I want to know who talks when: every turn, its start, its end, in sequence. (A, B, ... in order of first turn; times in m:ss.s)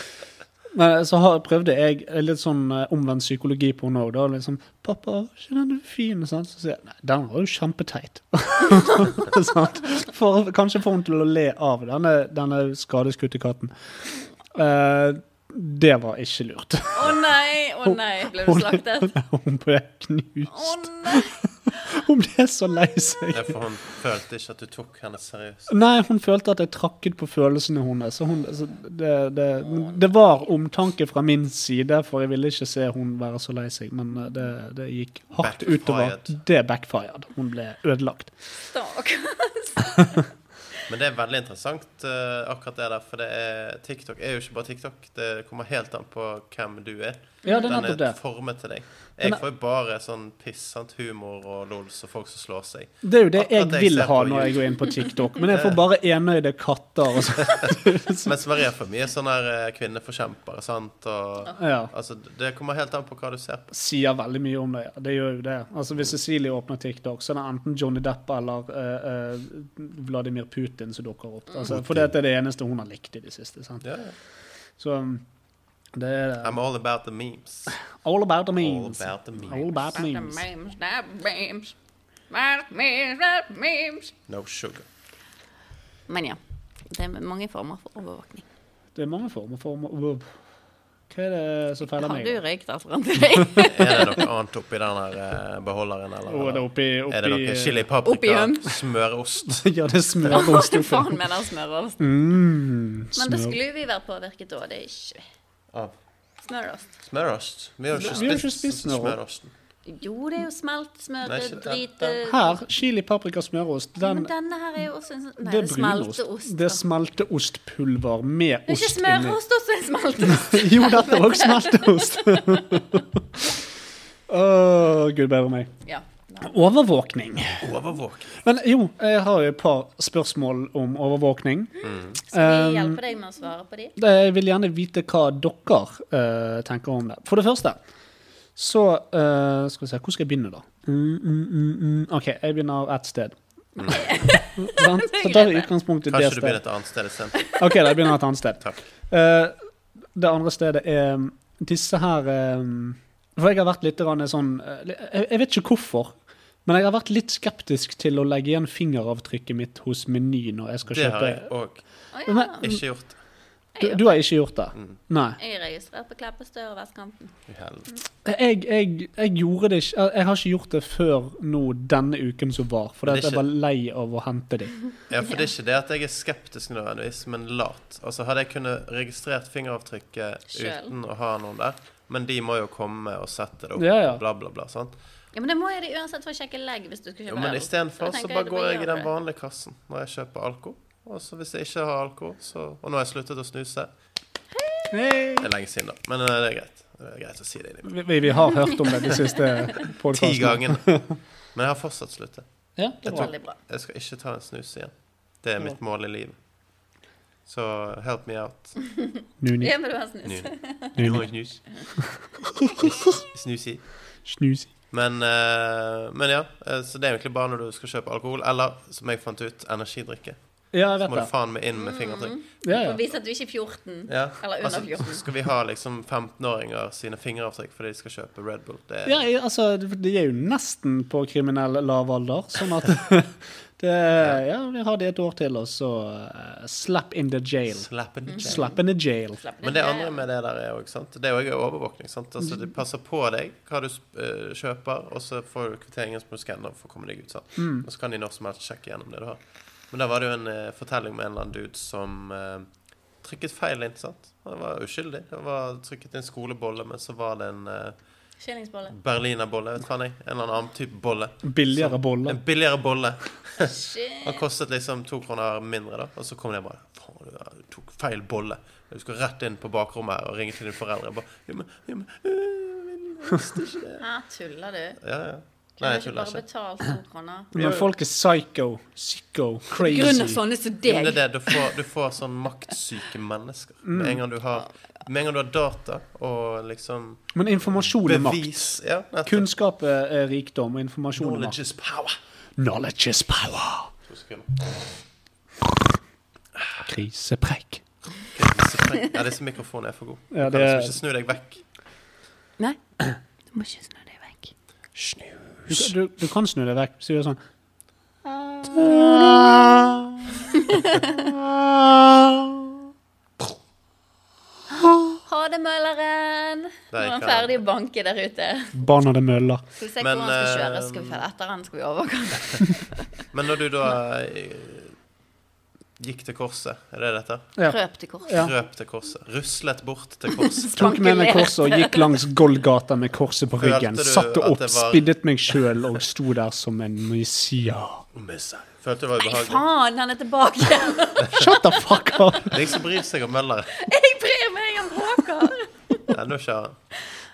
0:00.7-0:13.7 A
0:14.5-0:17.2 A
0:16.9-0:19.2 B
0:17.8-0:23.6 A
0:20.5-0:21.7 B
0:23.3-0:25.8 C
0:25.7-0:38.3 A
0:35.4-0:36.3 C
0:38.6-0:40.3 B
0:40.9-0:55.8 C
0:47.4-0:47.7 B
0:47.5-0:48.2 A
0:53.0-0:58.3 A
0:57.4-1:03.7 C
1:01.6-1:01.9 A
1:03.7-1:13.8 A
1:11.7-1:12.1 C
1:13.8-1:14.2 C
1:14.8-1:15.2 A
1:15.9-1:16.6 A
1:16.4-1:17.8 C
1:17.7-1:20.4 A
1:18.6-1:19.7 C
1:19.6-1:21.8 B
1:22.3-1:24.1 B
1:24.3-1:24.9 C
1:26.1-1:28.4 B
1:29.0-1:30.3 A
1:31.1-1:32.4 A
1:31.9-1:34.2 B
1:33.6-1:39.7 C
1:36.3-1:37.8 A
1:38.0-1:38.6 B
1:39.4-1:41.2 A
1:40.3-1:42.1 B
1:42.0-1:43.6 A
1:43.2-1:45.2 B
1:46.4-1:46.9 B
1:47.0-1:49.5 C
1:47.9-1:49.2 A
1:49.9-1:52.6 B
1:51.2-1:52.2 C
1:52.3-1:54.3 A
1:54.0-1:56.8 B
1:55.4-1:59.4 A
1:58.7-2:02.9 B
2:00.2-2:03.5 A
2:04.3-2:05.7 A
2:05.8-2:06.6 B
2:06.4-2:07.8 A
2:07.6-2:08.4 C
2:08.4-2:11.8 A
2:11.8-2:12.2 C
2:12.3-2:13.0 A
2:12.3-2:14.0 B
2:14.0-2:17.8 A
2:18.6-2:26.6 A
2:23.8-2:24.0 C
2:23.9-2:25.7 B
2:26.1-2:27.5 C
2:27.6-2:29.6 A
2:30.1-2:41.5 A
2:40.9-2:41.8 C
2:42.1-2:42.6 B
2:42.3-2:42.8 A
2:42.6-2:43.1 C
2:43.8-2:44.1 B
2:43.8-2:45.4 A
2:45.4-2:47.3 B
2:47.5-2:47.9 C
2:48.2-2:54.8 A
2:53.0-2:53.5 C
2:55.1-3:04.9 C
3:00.5-3:00.9 B
3:03.8-3:04.2 A
3:05.3-3:09.1 B
3:07.3-3:13.9 C
3:14.6-3:14.9 B
3:14.9-3:15.5 A
3:15.4-3:18.0 C
3:17.9-3:21.1 A
3:18.7-3:19.8 B
3:19.8-3:22.4 C
3:22.8-3:23.3 A
3:23.0-3:26.4 C
3:23.1-3:23.6 B
3:27.5-3:28.8 C
3:28.9-3:31.1 B
3:29.4-3:29.7 A
3:30.2-3:31.6 C
3:31.0-3:31.3 A
3:32.4-3:33.2 A
3:32.8-3:33.8 C
3:34.2-3:34.7 A
3:34.9-3:42.4 C
3:40.7-3:41.3 A
3:41.8-3:45.2 B
3:42.6-3:43.0 A
3:44.1-3:49.3 C
3:49.1-3:57.9 A
3:57.7-3:58.7 C
3:58.3-3:58.8 B
3:58.4-3:59.4 A
3:59.4-4:00.2 B
3:59.6-4:09.4 C
4:07.6-4:07.9 A
4:09.9-4:18.0 C
4:18.4-4:19.0 B
4:18.9-4:34.0 C
4:21.4-4:22.4 A
4:23.6-4:24.4 B
4:34.0-4:35.0 B
4:35.0-4:36.4 C
4:35.8-4:37.5 B
4:37.5-4:40.4 A
4:37.6-4:37.9 C
4:39.8-4:41.7 B
4:40.8-4:49.5 C
4:43.9-4:44.2 A
4:47.4-4:51.6 A
4:51.2-4:52.2 C
4:52.6-4:53.9 A
4:54.1-4:54.8 C
4:56.6-4:56.9 C
4:56.8-4:57.8 A
4:58.3-5:01.6 C
5:00.3-5:01.0 A
5:03.5-5:04.5 B
5:05.0-5:05.9 C
5:05.7-5:07.4 A
5:08.2-5:12.8 A
5:10.6-5:11.3 B
5:14.8-5:18.8 B
5:16.9-5:17.6 C
5:18.8-5:19.6 A
5:19.8-5:23.1 B
5:20.0-5:21.2 C
5:23.3-5:25.0 C
5:26.0-5:27.5 C
5:27.6-5:28.5 A
5:27.7-5:28.4 B
5:28.3-5:30.8 C
5:30.3-5:32.2 B
5:30.8-5:38.1 A
5:33.6-5:35.6 C
5:38.1-5:39.6 C
5:39.2-5:42.5 B
5:41.2-5:41.5 C
5:41.3-5:42.6 A
5:42.5-5:43.8 C
5:43.7-5:46.1 B
5:46.1-5:46.8 C